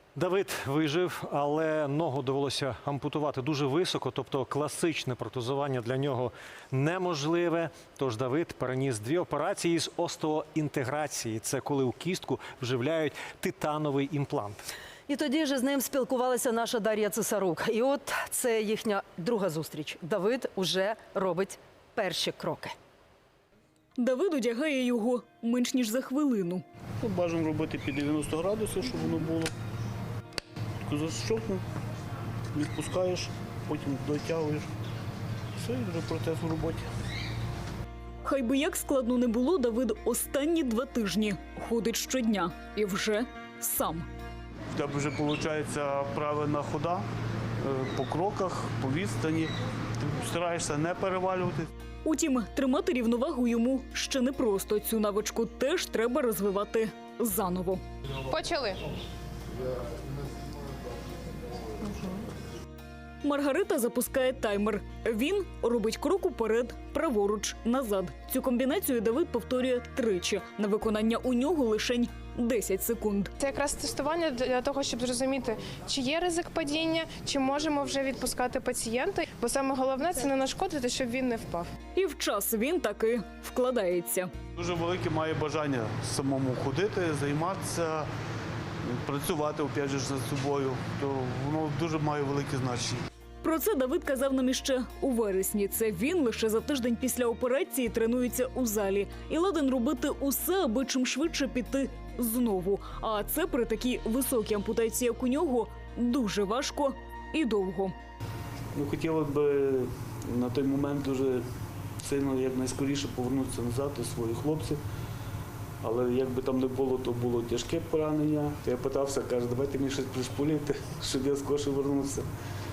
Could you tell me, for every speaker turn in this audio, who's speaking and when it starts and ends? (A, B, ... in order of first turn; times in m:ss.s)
0:00.2-0:14.7 A
0:15.1-0:22.7 B
0:24.0-0:26.6 C
0:27.0-0:29.5 D
0:30.8-0:31.6 D
0:32.5-0:34.7 D
0:35.6-0:36.9 D
0:38.2-0:44.1 C
0:44.7-0:47.0 D
0:47.6-0:51.7 D
0:52.0-0:57.8 C
0:58.3-0:58.8 E
1:01.8-1:02.2 E
1:03.2-1:13.3 C
1:13.4-1:21.7 E
1:21.9-1:24.3 C
1:24.6-1:28.1 D
1:28.8-1:33.0 D
1:33.4-1:47.9 C
1:48.7-1:51.4 D
1:52.0-1:54.8 D
1:55.8-2:02.2 D